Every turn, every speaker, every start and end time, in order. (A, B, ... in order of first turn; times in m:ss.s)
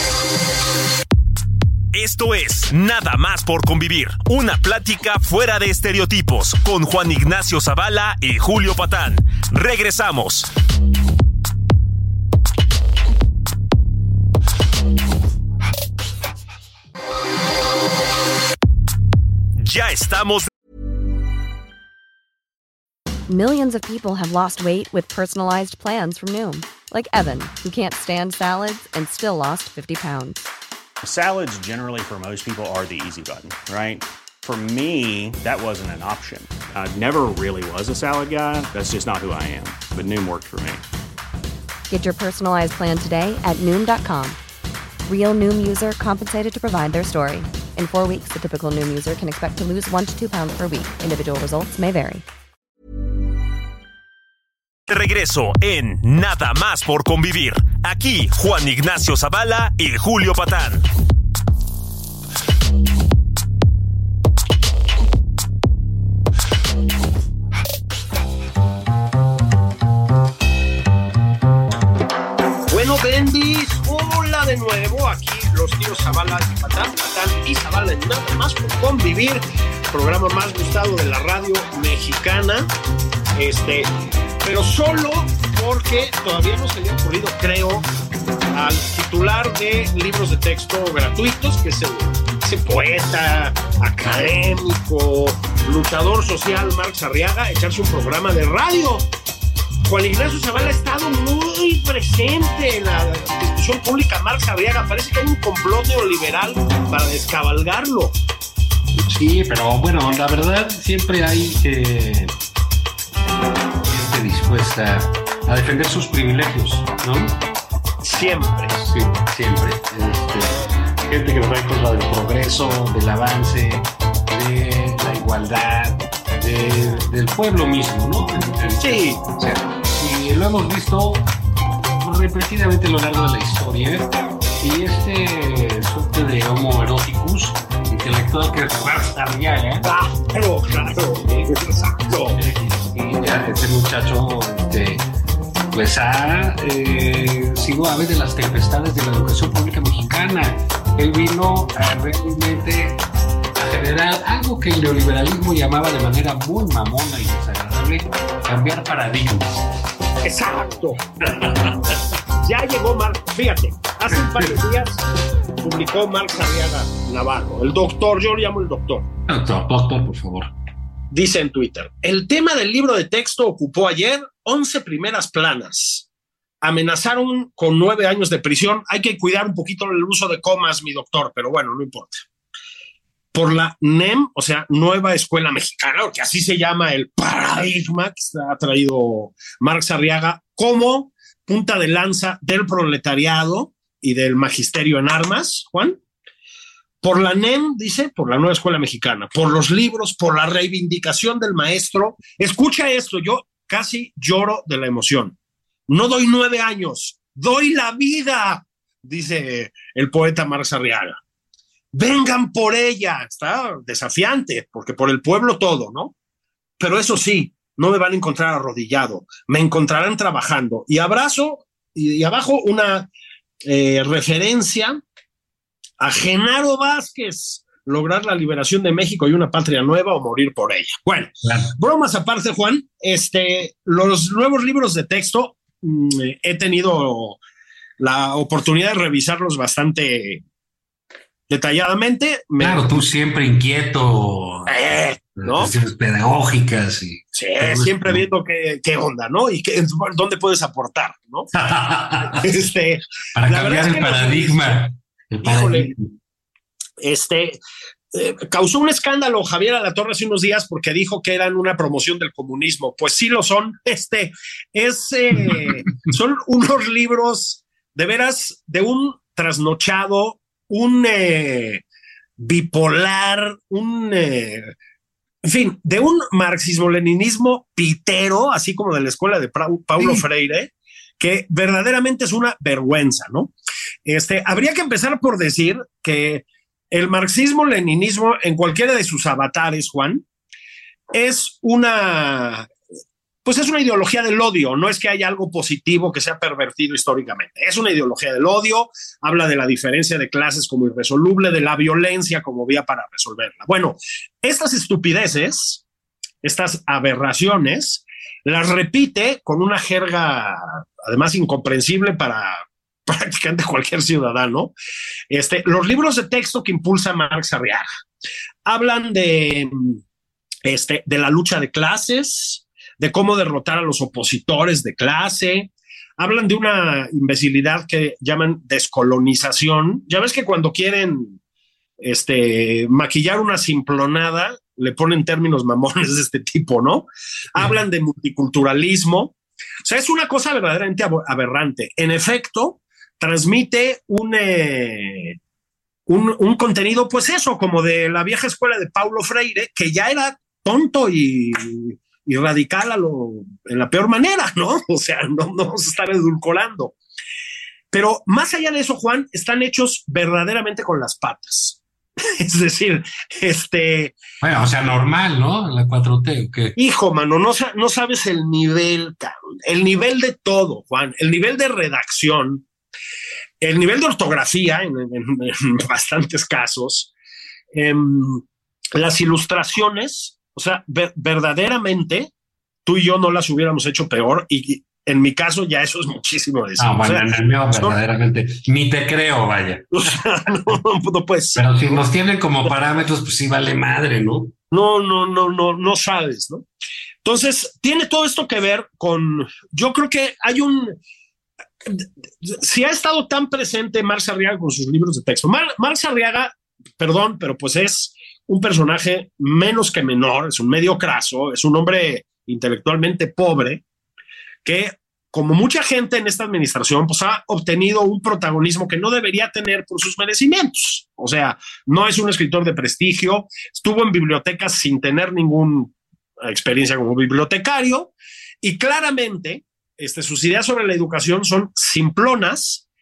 0:01.9-0:10.5 A
0:19.6-0:20.5 A
0:23.3-0:30.4 B
0:31.0-0:40.8 C
0:41.9-0:44.4 B
0:45.0-0:52.2 B
0:54.9-1:00.8 A
1:12.7-1:22.7 D
1:23.4-1:23.9 D
1:24.4-1:27.9 D
1:28.5-1:39.1 D
1:39.8-1:48.2 D
1:48.9-1:52.3 E
1:53.8-1:57.4 E
1:58.0-1:58.8 D
1:58.8-2:11.2 E
2:08.8-2:09.2 D
2:12.0-2:19.9 E
2:19.8-2:22.4 D
2:22.4-2:25.0 E
2:25.7-2:33.0 E
2:33.5-2:39.6 E
2:40.2-2:41.0 D
2:41.4-2:41.7 E
2:42.4-2:45.0 D
2:45.6-2:49.1 D
2:49.3-2:50.5 E
2:51.1-2:56.0 D
2:56.6-3:02.2 D
3:03.3-3:16.0 D
3:17.0-3:25.3 D
3:25.9-3:31.2 D
3:31.9-3:36.1 D
3:36.8-3:43.1 D
3:43.6-3:45.0 D
3:46.0-3:57.4 D
3:51.4-3:51.7 E
3:58.0-4:00.4 D
4:01.5-4:03.0 D
4:02.6-4:08.2 E
4:04.7-4:05.7 D
4:07.3-4:11.5 D
4:11.5-4:12.6 E
4:12.4-4:14.8 D
4:13.3-4:16.0 E
4:15.4-4:16.0 D
4:17.0-4:17.6 D
4:18.1-4:31.8 D
4:32.4-4:34.7 D
4:35.4-4:43.5 D
4:44.0-4:50.2 D
4:51.1-4:52.7 D
4:53.4-5:05.8 D
5:06.4-5:14.7 D
5:15.3-5:17.8 D
5:18.6-5:20.0 D
5:20.6-5:31.4 D
5:32.0-5:45.4 D
5:46.1-5:56.9 D
5:57.9-6:04.1 D
6:04.4-6:06.8 E
6:06.8-6:12.6 D
6:13.6-6:17.1 D
6:17.7-6:18.4 D
6:18.9-6:22.3 D
6:22.8-6:28.0 D
6:26.8-6:30.1 E
6:30.0-6:32.0 D
6:31.6-6:34.5 E
6:34.7-6:36.6 D
6:37.2-6:41.0 D
6:41.8-6:53.8 D
6:54.6-7:12.8 D